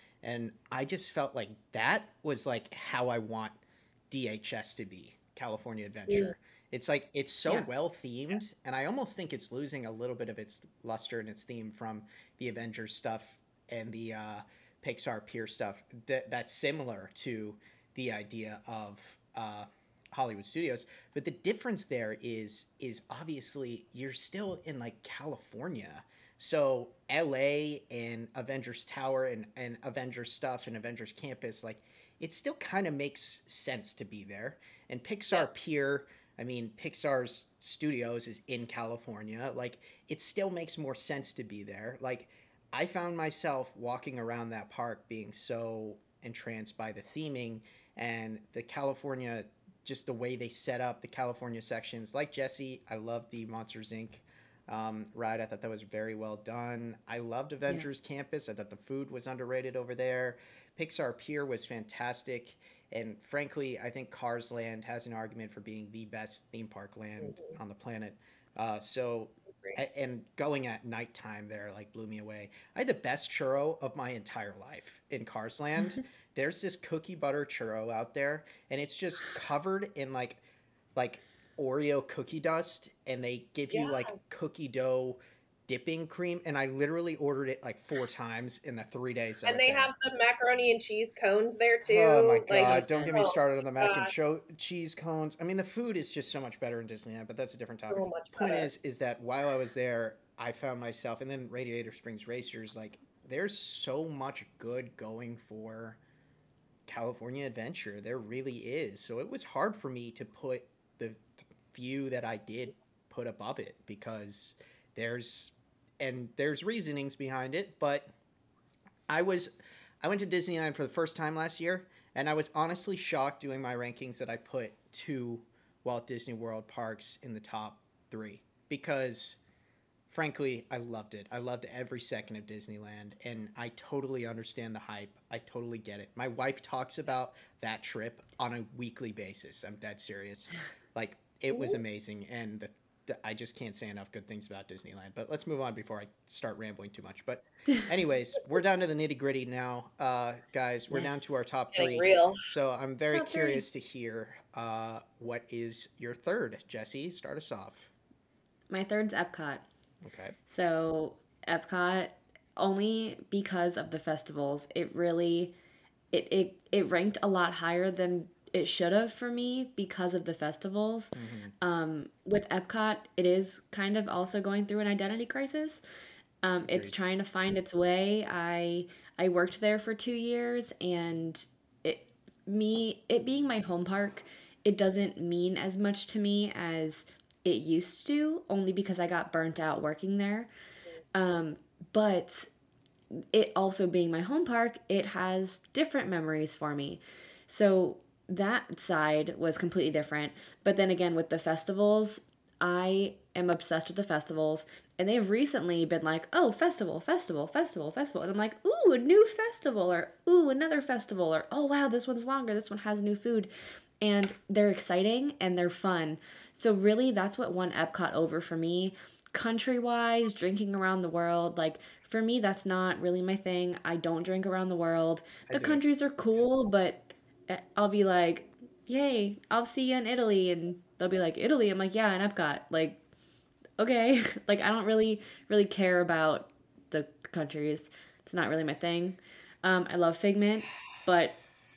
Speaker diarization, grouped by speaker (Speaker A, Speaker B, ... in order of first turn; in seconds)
Speaker A: 0.2-80.4, 81.0-89.9, 91.8-106.0, 106.9-118.1, 119.1-119.5, 120.0-129.4, 130.1-157.9, 160.0-160.3, 171.1-171.5, 225.5-225.8
Speaker B: 6.1-6.3, 67.3-67.5, 83.7-84.1, 89.5-94.1, 97.8-98.7, 151.7-152.4
Speaker C: 92.6-93.2, 150.9-151.3, 153.1-153.6, 158.7-159.6, 160.5-165.5, 166.1-175.8, 176.4-190.5, 191.1-192.5, 193.1-233.0, 233.8-241.4